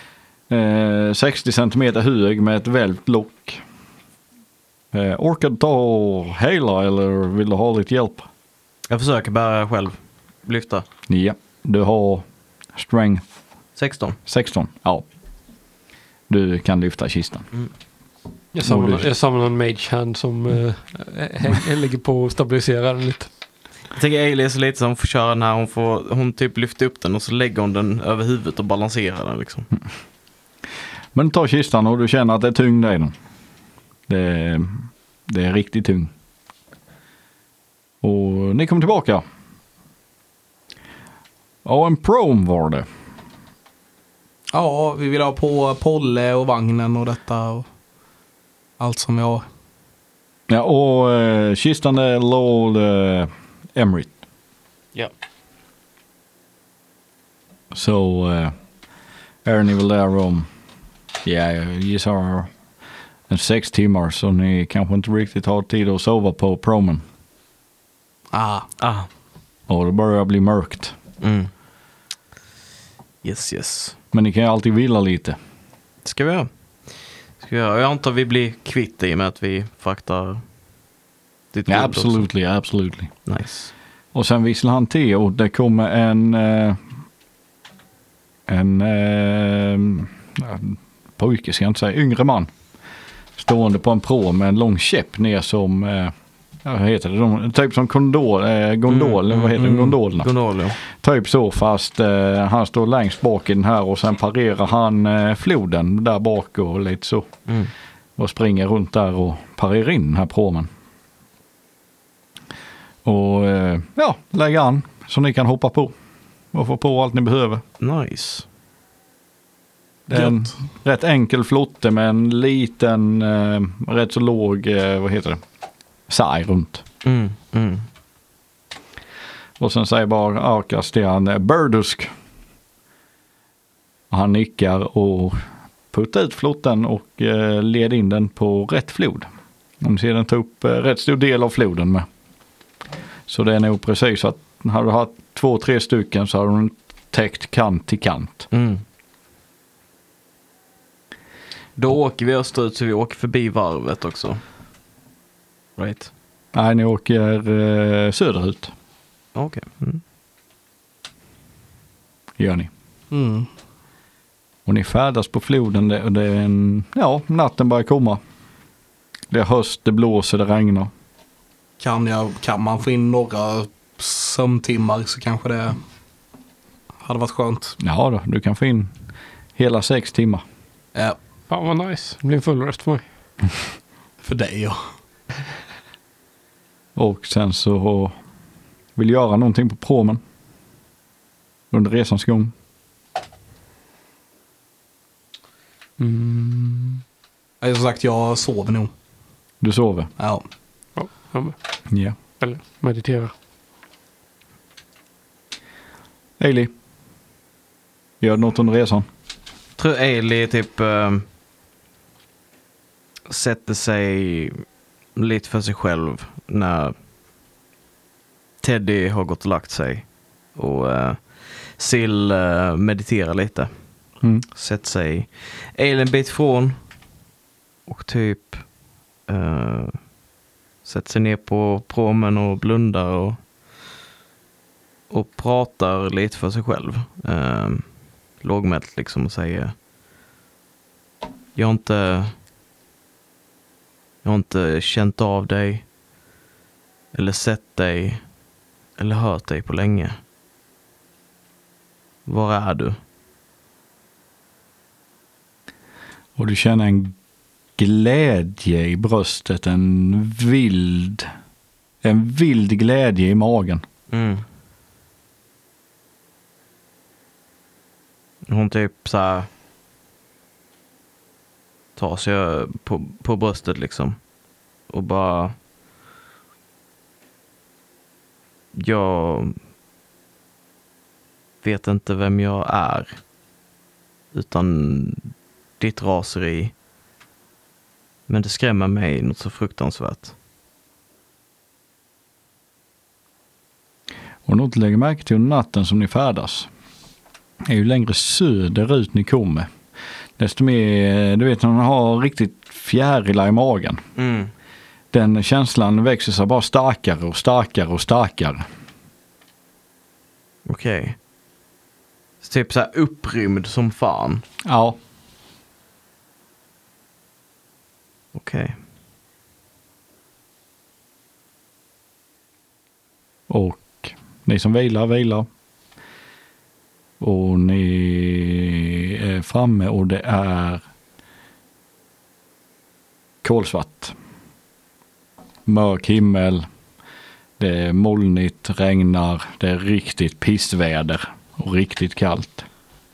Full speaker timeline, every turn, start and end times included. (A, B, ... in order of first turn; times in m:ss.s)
0:00.5-0:03.6 A
0:04.9-0:08.3 A
0:08.9-0:10.8 B
0:11.1-0:12.2 A
0:12.7-0:13.2 A
0:13.8-0:14.2 B
0:14.2-0:15.0 A
0:16.3-0:17.5 A
0:18.5-0:23.3 C
0:18.6-0:19.1 A
0:23.9-0:29.7 B
0:31.1-0:33.1 A
0:34.1-0:36.1 A
0:38.0-0:39.2 A
0:41.6-0:42.8 A
0:44.5-0:47.6 D
0:48.8-0:49.4 D
0:50.5-0:54.1 A
0:57.7-0:58.5 A
0:59.4-1:00.5 A
1:01.2-1:02.5 A
1:03.3-1:07.0 A
1:08.3-1:08.7 D
1:08.8-1:09.1 B
1:09.7-1:10.9 A
1:11.2-1:11.5 B
1:13.2-1:14.0 B
1:14.1-1:15.4 A
1:16.0-1:20.4 B
1:21.5-1:22.3 B
1:21.7-1:23.1 A
1:23.2-1:23.7 B
1:24.1-1:26.8 A
1:28.5-1:32.5 A
1:33.4-1:36.1 A
1:36.6-1:40.3 A
1:38.9-1:40.8 B
1:40.8-1:47.3 A
1:48.2-1:50.7 A
1:53.0-1:55.9 A
1:56.5-1:57.6 A
1:57.8-1:58.4 B
2:00.1-2:05.4 A
2:00.1-2:00.5 D
2:06.1-2:06.8 A
2:07.0-2:07.8 B
2:09.6-2:12.1 A
2:14.1-2:19.3 A
2:19.8-2:22.0 A
2:23.3-2:28.5 A
2:28.5-2:28.8 B
2:31.8-2:34.4 B
2:35.8-2:36.1 B
2:36.5-2:38.7 A
2:39.3-2:40.0 B
2:42.4-2:42.7 A
2:43.1-2:43.5 D
2:44.6-2:48.2 A
2:49.3-2:50.9 A
2:51.8-2:55.8 D
2:57.0-2:57.8 D
2:57.8-2:58.9 A
2:59.6-3:00.4 A
3:01.5-3:03.0 C
3:04.2-3:04.8 D
3:07.0-3:08.1 A
3:09.0-3:10.2 A
3:11.7-3:12.5 A
3:16.0-3:17.0 C
3:17.6-3:18.9 D
3:19.6-3:20.1 A
3:20.2-3:20.4 D
3:21.0-3:21.6 C
3:21.9-3:22.1 A
3:22.4-3:23.3 C
3:26.4-3:26.7 A
3:28.2-3:29.0 A
3:29.8-3:31.2 B
3:33.3-3:34.6 B
3:35.2-3:36.9 B
3:38.6-3:43.7 B
3:44.5-3:46.8 B
3:47.9-3:48.7 B
3:49.3-3:50.0 B
3:50.8-3:53.4 B
3:55.1-3:59.7 B
4:01.5-4:02.3 B
4:04.2-4:05.8 B
4:07.1-4:08.2 B
4:09.0-4:10.2 B
4:12.2-4:13.0 B
4:16.4-4:17.1 A
4:17.8-4:21.3 A
4:22.0-4:23.8 A
4:24.1-4:24.4 B
4:28.5-4:29.5 B
4:32.0-4:34.2 B
4:34.9-4:35.5 B
4:38.7-4:39.5 B
4:41.6-4:43.2 B
4:44.3-4:45.3 B
4:45.8-4:46.7 B
4:48.3-4:50.3 B
4:54.4-4:56.7 A
4:57.6-4:59.7 A
5:00.4-5:04.0 A
5:04.2-5:04.5 B
5:05.1-5:08.6 A
5:10.6-5:11.2 B
5:12.4-5:14.4 B
5:14.6-5:15.0 A
5:18.3-5:18.8 B
5:23.5-5:25.4 A
5:27.2-5:30.8 A
5:33.4-5:34.1 A
5:35.6-5:36.6 A
5:37.6-5:42.7 A